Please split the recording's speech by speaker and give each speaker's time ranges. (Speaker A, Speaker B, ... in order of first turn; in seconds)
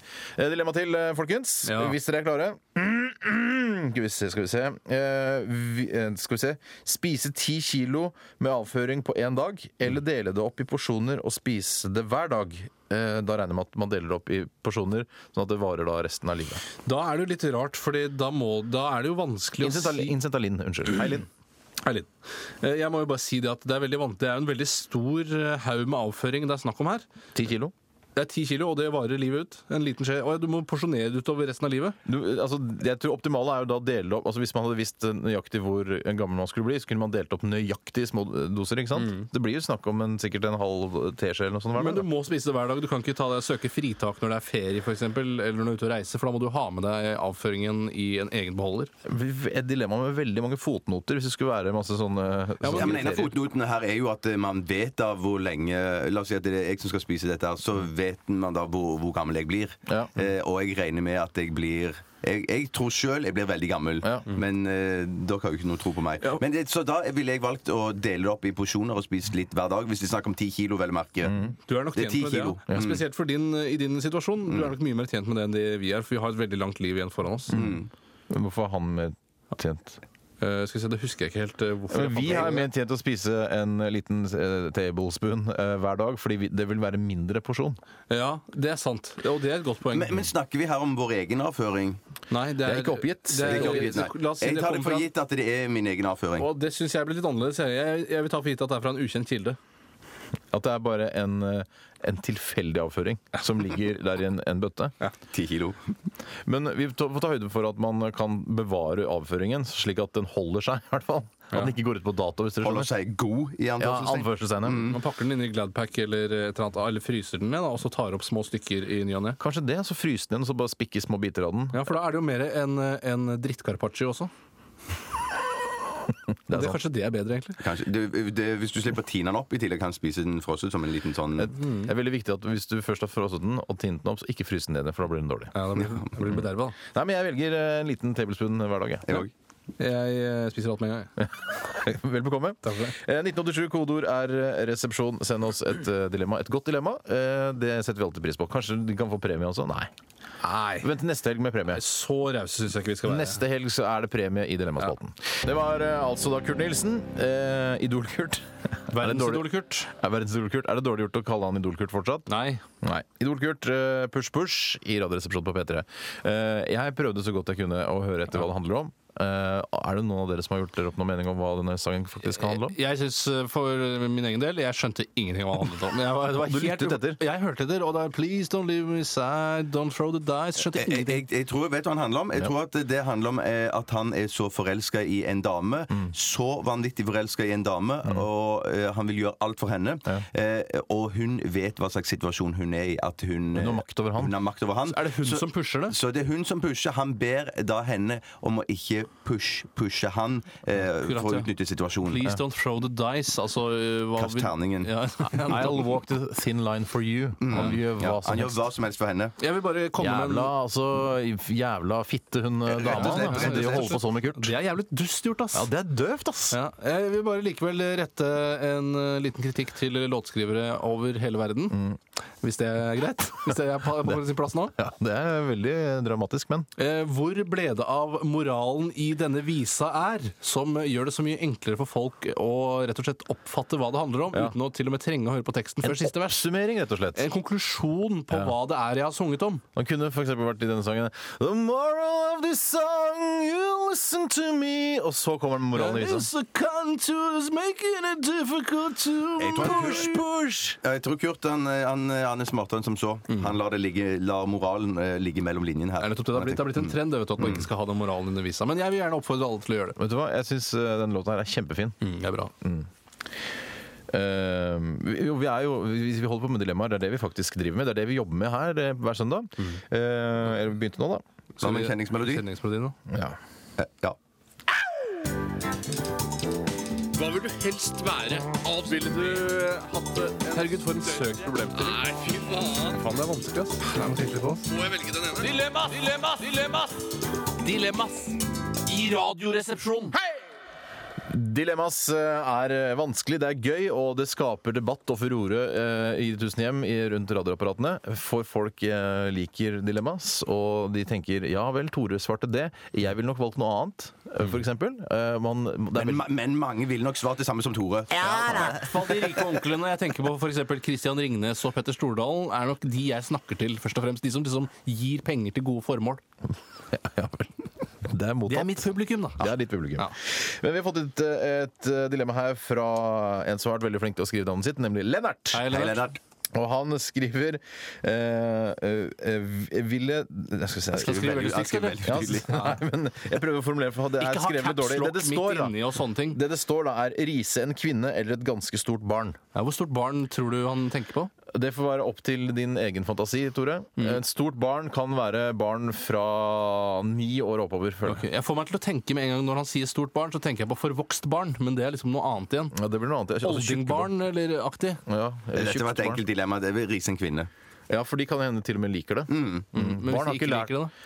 Speaker A: 0.3-16.6, 19.6-21.3, 27.3-27.7, 32.0-42.0, 49.0-53.3, 64.0-64.3, 71.2-71.5, 72.7-73.0, 77.5-77.8, 78.3-80.0, 81.9-87.8, 92.6-94.0, 100.5-104.9, 106.5-112.9, 113.8-114.9, 119.4-121.9, 126.5-126.8, 131.4-135.5, 136.9-139.2, 141.2-149.9, 150.8-151.8, 153.0-162.3, 162.8-172.8, 176.3-177.2, 193.5-194.3, 205.3-208.6, 210.0-214.5, 215.5-216.6, 221.7-222.0, 224.7-226.7, 235.8-237.2, 239.8-246.3, 249.5-250.8, 260.0-262.0, 262.6-262.9, 264.1-271.2, 273.1-273.4, 291.3-306.2, 308.2-308.8, 316.9-325.8, 326.5-331.4, 332.0-335.8, 336.3-339.4, 341.5-348.2, 352.7-354.1, 355.1-356.2, 357.9-360.7
Speaker B: 1.6-1.9, 16.9-20.1, 21.8-22.1, 22.6-27.1, 28.1-32.0, 38.9-39.3, 41.8-48.9, 52.6-53.3, 71.7-77.6, 80.4-82.7, 88.1-90.2, 92.3-95.1, 96.4-99.6, 114.9-119.4, 121.7-124.3, 126.5-127.6, 131.6-131.9, 135.5-136.8, 139.8-141.1, 142.6-142.9, 150.4-150.9, 151.7-153.4, 158.9-159.9, 162.3-162.6, 172.3-181.2, 194.9-195.9, 201.0-201.5, 202.0-205.8, 209.4-210.5, 212.9-215.7, 216.5-221.8, 222.4-224.7, 226.8-236.4, 237.1-239.6, 245.7-250.2, 253.3-253.5, 256.0-259.9, 262.0-262.5, 271.6-272.9, 278.9-279.8, 280.5-282.0, 283.0-284.6, 308.2-316.2, 318.5-320.1, 325.5-326.1, 330.9-332.8, 334.2-336.4, 339.5-341.3, 348.1-352.7, 353.4-355.0, 359.7-360.9
Speaker C: 52.7-73.0, 77.5-77.9, 89.9-92.0, 93.4-96.5, 105.3-105.8, 112.6-115.0, 127.6-131.5, 180.7-202.3, 204.2-204.9, 207.4-209.3, 212.7-214.0, 249.4-250.2, 250.8-257.6, 271.6-272.4, 273.8-274.1, 305.9-309.4, 325.7-326.2, 331.0-332.6, 355.5-357.5, 359.3-359.7
Speaker D: 277.1-280.5, 281.7-283.1, 284.6-287.1, 287.6-290.1